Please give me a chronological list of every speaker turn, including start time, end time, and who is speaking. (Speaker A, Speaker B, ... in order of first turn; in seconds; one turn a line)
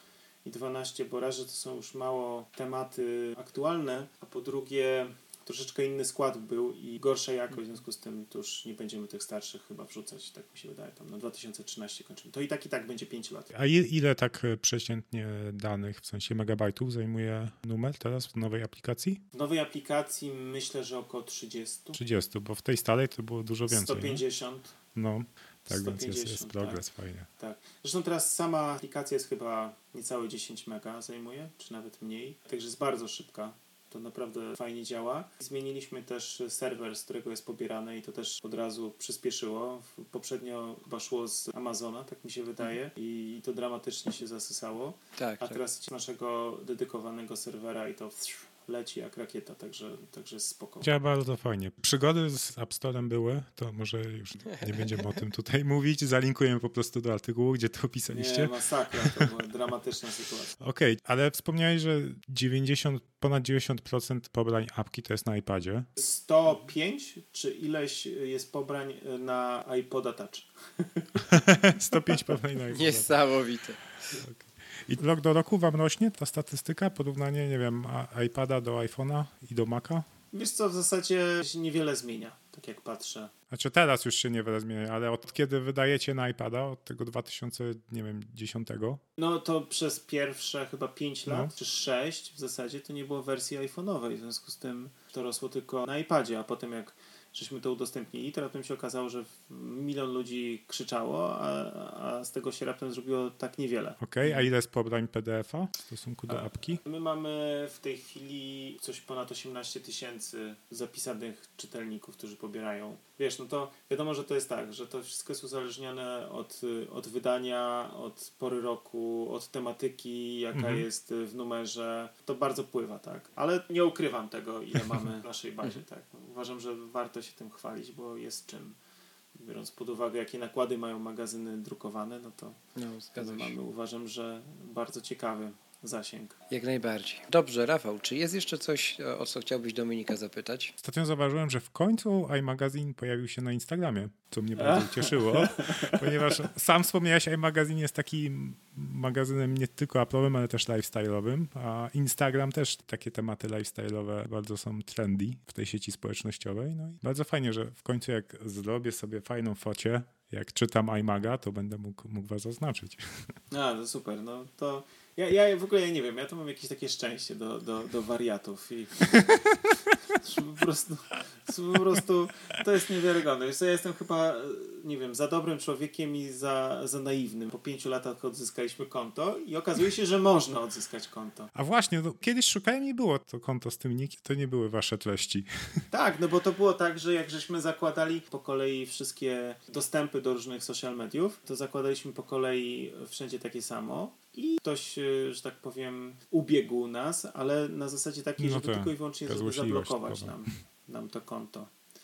Speaker A: 0.4-13.5
Speaker B: 13.5-19.2
Speaker A: 19.3-22.0
Speaker B: 21.9-24.2
Speaker A: 23.7-24.7
Speaker B: 24.9-27.3
Speaker A: 25.7-26.8
Speaker A: 27.4-50.9
Speaker C: 45.2-45.6
Speaker B: 50.8-59.3
Speaker A: 58.1-60.5
Speaker B: 60.6-65.9
Speaker A: 66.0-71.2
Speaker B: 71.3-73.1
Speaker C: 72.7-74.2
Speaker B: 74.2-80.1
Speaker A: 80.3-83.3
Speaker B: 83.5-89.0
Speaker A: 89.2-104.0
Speaker B: 104.0-106.8
Speaker A: 106.3-128.8
Speaker B: 120.5-120.8
Speaker A: 129.3-132.6
Speaker C: 132.7-133.5
Speaker A: 133.2-136.3
Speaker C: 136.5-140.7
Speaker B: 140.8-163.2
Speaker A: 144.6-146.3
Speaker A: 163.5-169.4
Speaker A: 170.1-181.5
Speaker B: 181.5-185.5
Speaker A: 185.9-201.7
Speaker B: 198.4-200.5